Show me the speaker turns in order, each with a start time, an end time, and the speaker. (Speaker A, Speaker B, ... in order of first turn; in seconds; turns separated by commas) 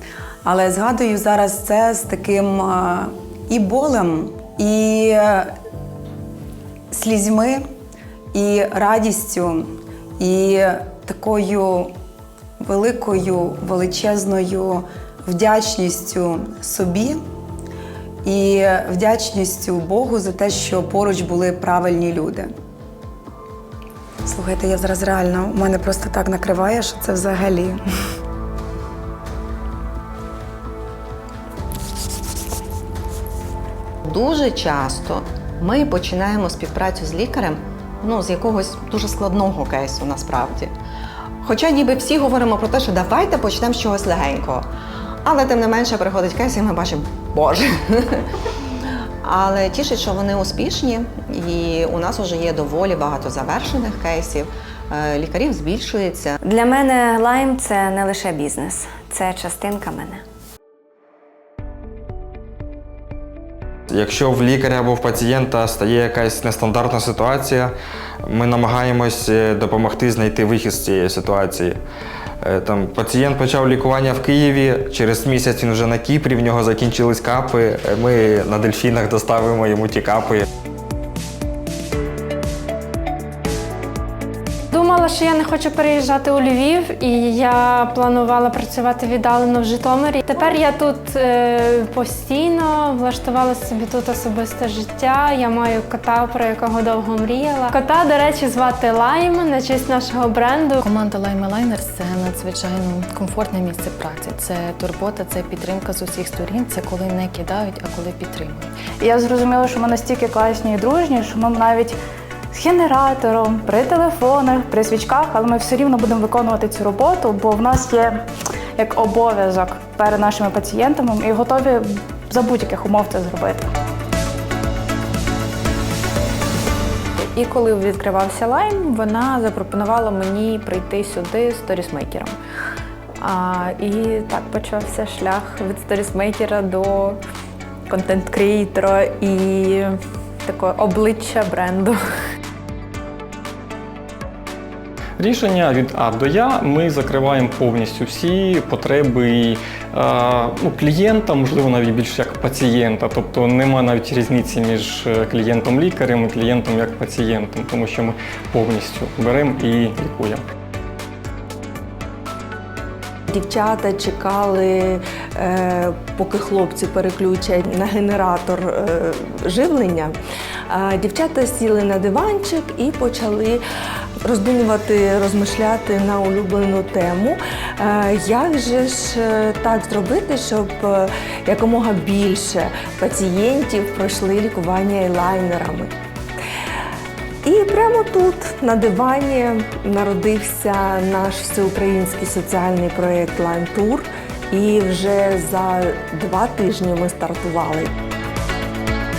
Speaker A: 0.4-5.5, Speaker A: 6.9-7.6, Speaker A: 8.3-11.9, Speaker A: 12.6-17.2, Speaker A: 18.2-22.5, Speaker A: 24.2-27.8, Speaker B: 34.0-40.7, Speaker B: 41.4-44.7, Speaker B: 45.2-48.2, Speaker B: 49.2-56.4, Speaker C: 56.4-60.2, Speaker D: 63.9-67.7, Speaker D: 68.2-71.8, Speaker D: 72.4-80.4, Speaker E: 84.7-100.8, Speaker F: 100.8-108.7, Speaker G: 109.0-111.9, Speaker A: 109.3-111.7, Speaker A: 112.5-118.1, Speaker G: 112.6-117.7, Speaker A: 118.8-121.7, Speaker G: 118.8-121.5, Speaker A: 122.3-123.7, Speaker G: 122.3-123.5, Speaker H: 127.2-132.3, Speaker H: 133.2-137.2, Speaker H: 137.9-142.0, Speaker I: 145.2-160.4, Speaker J: 163.3-170.1, Speaker J: 170.7-173.6, Speaker J: 174.2-185.9, Speaker J: 187.4-197.9